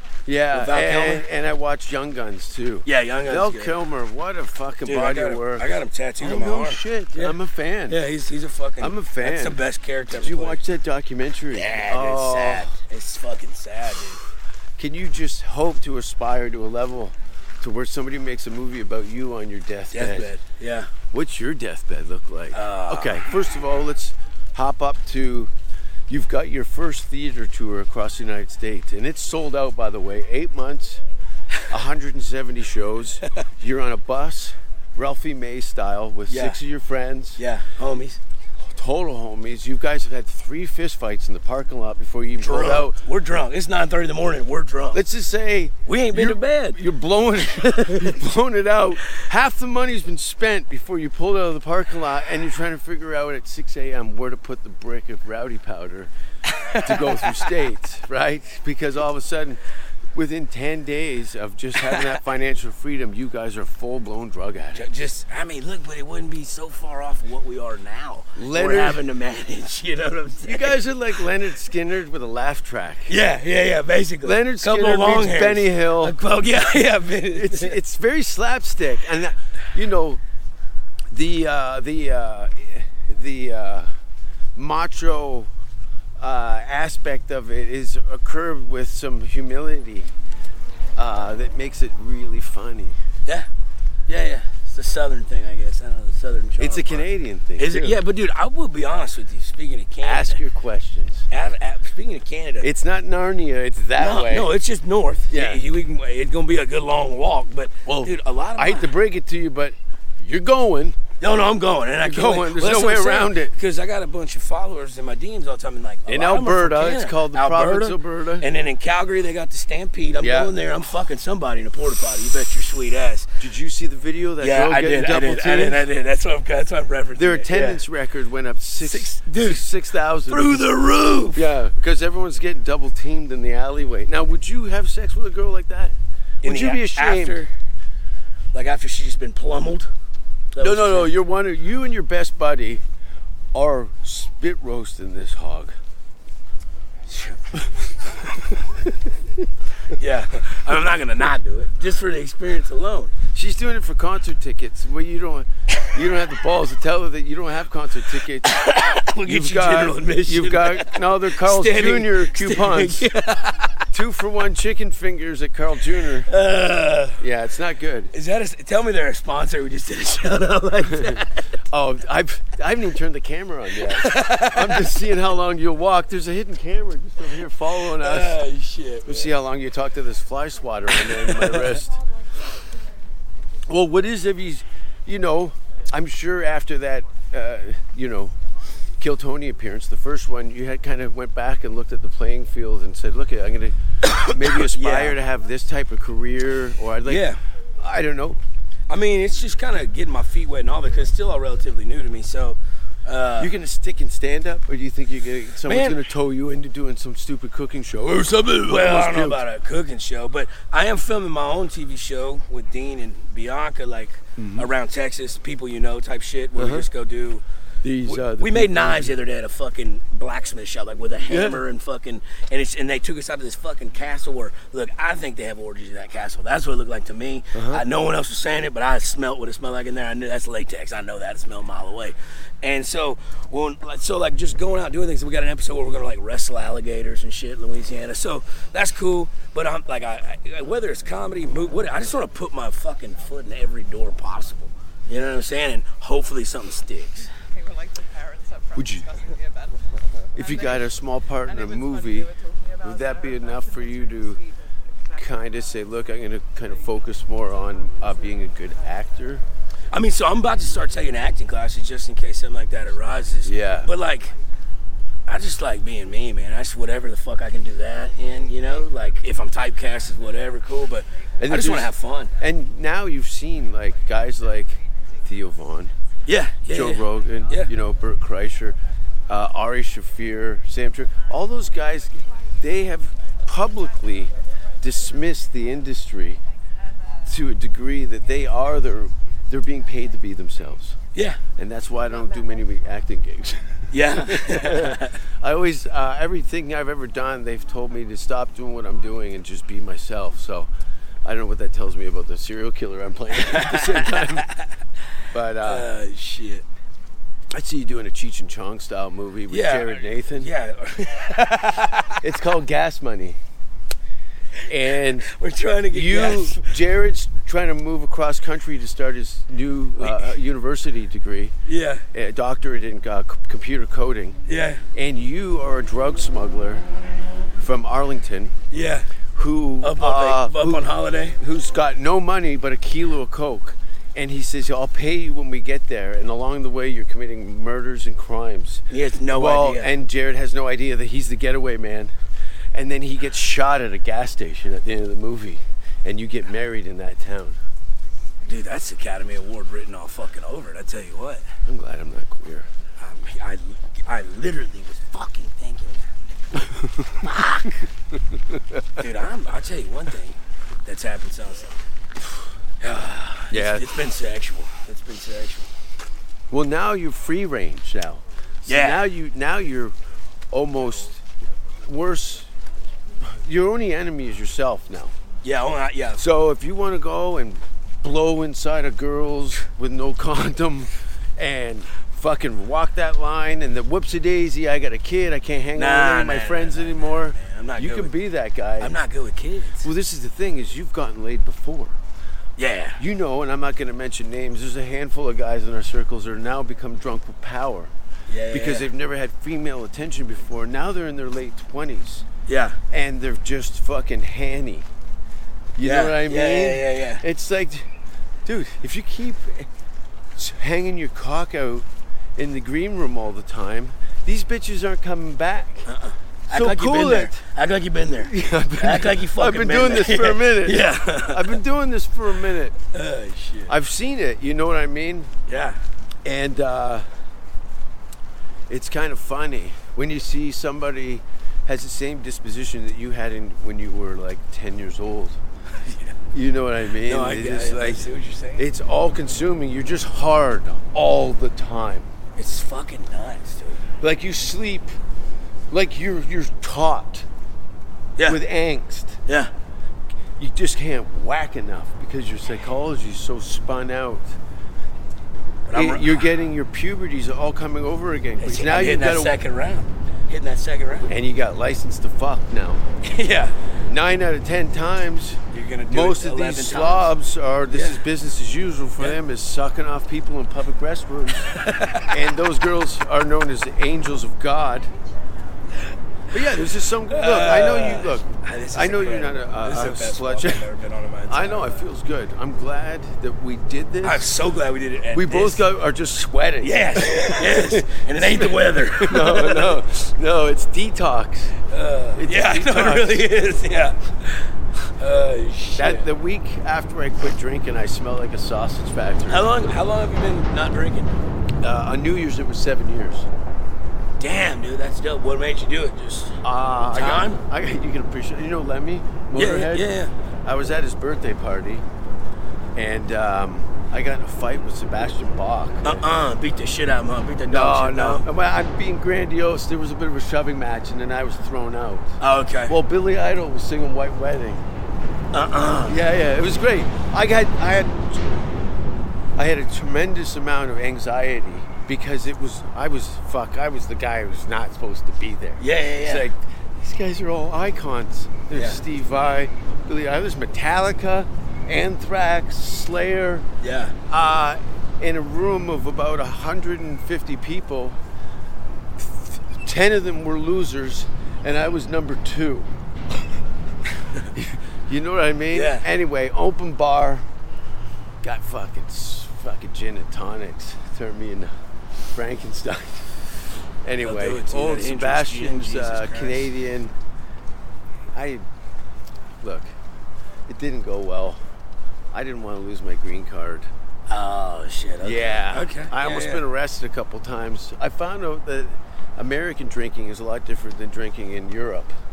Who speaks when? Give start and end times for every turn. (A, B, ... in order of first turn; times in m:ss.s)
0:00.3-0:08.0 A
0:00.5-0:01.2 B
0:02.9-0:03.8 B
0:04.9-0:07.4 B
0:07.9-0:10.6 B
0:08.8-0:12.7 A
0:11.5-0:14.2 B
0:14.8-0:20.3 A
0:19.9-0:20.9 B
0:21.1-0:25.5 A
0:22.5-0:23.3 B
0:26.1-0:31.0 A
0:31.7-0:37.4 A
0:36.3-0:36.6 B
0:37.4-0:38.2 B
0:38.7-0:43.0 A
0:42.4-0:45.0 B
0:44.9-0:56.1 A
0:45.9-0:46.8 B
0:56.6-0:57.4 B
0:56.8-0:59.6 A
1:00.1-1:04.8 A
1:04.8-1:10.8 B
1:08.4-1:09.0 A
1:10.4-1:13.1 A
1:13.1-1:17.8 B
1:14.2-1:16.2 A
1:17.3-1:20.2 A
1:21.1-1:23.9 A
1:24.6-1:25.5 A
1:26.2-1:30.1 A
1:31.0-1:33.0 A
1:34.1-1:40.4 B
1:36.6-1:38.0 A
1:40.0-1:41.3 A
1:41.3-1:42.7 B
1:42.6-1:44.5 A
1:44.0-1:48.9 B
1:45.3-1:45.6 A
1:47.8-1:51.0 A
1:51.2-2:03.3 B
1:52.0-1:53.5 A
1:56.1-1:58.5 A
2:00.2-2:00.5 A
2:03.4-2:05.9 A
2:04.4-2:07.8 B
2:07.2-2:10.7 A
2:08.8-2:09.7 B
2:10.3-2:11.5 B
2:11.3-2:17.5 A
2:16.4-2:17.5 B
2:18.5-2:19.9 B
2:20.5-2:21.1 B
2:20.6-2:22.8 A
2:23.5-2:25.8 A
2:27.1-2:27.4 B
2:29.9-2:33.1 B
2:33.3-2:38.5 A
2:38.4-2:43.8 B
2:39.2-2:43.2 A
2:43.9-2:46.3 A
2:46.3-2:47.2 B
2:47.2-2:48.1 A
2:48.1-2:51.5 B
2:50.9-2:58.4 A
2:53.8-2:55.0 B
2:57.8-2:59.4 B
2:59.1-3:02.0 A
3:01.0-3:01.6 B
3:03.7-3:08.4 A
3:09.0-3:18.4 A
3:14.1-3:15.2 B
3:17.1-3:17.4 B
3:18.9-3:23.5 B
3:23.4-3:29.4 A
3:25.7-3:26.0 B
3:28.7-3:37.4 B
3:34.4-3:34.7 A
3:36.6-3:36.9 A
3:37.8-3:39.2 A
3:38.0-4:07.3 B
3:41.2-3:41.6 A
3:47.5-3:47.8 A
4:07.5-4:10.9 C
4:08.8-4:09.1 A
4:10.4-4:14.4 A
4:11.5-4:15.2 C
4:15.2-4:19.4 A
4:19.9-4:24.3 B
4:23.4-4:23.9 A
4:25.3-4:32.3 B
4:31.4-4:35.9 A
4:36.3-4:37.7 B
4:36.7-4:46.4 A
4:47.3-4:51.0 A
4:51.2-4:51.4 B
4:51.6-5:00.7 A
4:53.9-4:55.2 B
5:01.2-5:04.5 A
5:03.4-5:04.7 B
5:05.3-5:05.9 A
5:05.6-5:06.6 B
5:07.5-5:10.5 A
5:09.5-5:12.2 B
5:12.2-5:13.4 A
5:14.7-5:15.3 A
5:15.3-5:16.7 B
5:15.9-5:21.6 A
5:20.0-5:20.3 B
5:21.7-5:22.0 B
5:22.1-5:24.4 A
5:24.5-5:24.8 B
5:24.9-5:26.9 A
5:27.6-5:28.6 A
5:28.7-5:29.1 B
5:29.4-5:42.1 A
5:29.8-5:31.4 B
5:38.9-5:39.9 B
5:42.7-5:47.6 A
5:48.5-5:51.5 B
5:51.7-5:52.7 A
5:53.0-5:56.1 B
5:56.7-5:57.2 A
5:57.2-5:57.8 B
5:58.5-5:58.8 A
5:59.0-6:01.8 B
6:02.8-6:05.7 B
6:03.5-6:04.0 A
6:06.5-6:10.0 A
6:08.7-6:09.0 B
6:10.5-6:11.2 A
6:11.8-6:12.5 A
6:13.2-6:15.1 A
6:15.4-6:16.2 B
6:16.2-6:29.0 A
6:25.8-6:28.2 B
6:28.8-6:29.9 B
6:29.8-6:32.0 A
6:32.6-6:33.0 B
6:33.0-6:37.9 A
6:38.3-6:38.9 B
6:38.5-6:42.2 A
6:42.5-6:42.8 B
6:42.9-6:44.9 A
6:45.8-6:47.9 A
6:45.8-6:47.2 B
6:48.5-6:49.7 A
6:50.4-6:55.9 A
6:55.9-7:01.6 B
6:56.5-6:57.4 A
6:58.2-7:02.8 A
7:02.9-7:03.8 B
7:03.7-7:05.3 A
7:05.5-7:05.8 B
7:06.2-7:07.1 A
7:08.7-7:15.4 A
7:15.8-7:16.2 B
7:16.3-7:22.1 A
7:17.0-7:18.7 B
7:22.4-7:23.8 B
7:24.0-7:25.0 A
7:25.7-7:27.3 A
7:28.2-7:29.2 A
7:30.4-7:34.4 A
7:35.7-7:36.2 B
7:35.7-7:39.4 A
7:38.4-7:41.1 B
7:41.1-7:42.8 A
7:43.0-7:43.6 B
7:43.9-7:51.5 A
7:45.5-7:47.1 B
7:47.7-7:48.0 B
7:51.5-7:52.1 B
7:52.1-7:54.9 A
7:56.3-8:00.7 A
7:57.1-8:01.8 B
8:01.3-8:04.3 A
8:04.0-8:05.7 B
8:05.1-8:11.5 A
8:06.6-8:09.8 B
8:11.7-8:14.4 B
8:12.2-8:13.3 A
8:15.0-8:16.1 B
8:15.8-8:19.7 A
8:19.3-8:21.1 B
8:21.6-8:23.3 A
8:24.2-8:26.4 B
8:26.4-8:31.8 A
8:26.9-8:27.4 B
8:29.3-8:30.1 B
8:32.8-8:36.1 A
8:35.8-8:38.3 B
8:37.5-8:42.1 A
8:42.2-8:42.8 B
8:42.7-8:44.6 A
8:45.3-8:46.0 B
8:45.9-8:48.2 A
8:49.4-9:03.5 A
8:55.6-8:56.3 B
8:58.5-8:58.8 B
9:03.6-9:04.0 B
9:04.1-9:08.0 A
9:09.0-9:12.7 A
9:14.3-9:17.3 A
9:15.5-9:15.8 B
9:18.2-9:21.5 A
9:22.1-9:23.1 A
9:23.8-9:26.9 A
9:24.0-9:26.5 B
9:28.1-9:28.4 A
9:29.4-9:29.7 A
9:30.5-9:31.4 A
9:32.1-9:33.7 A
9:34.1-9:36.4 B
9:35.0-9:41.9 A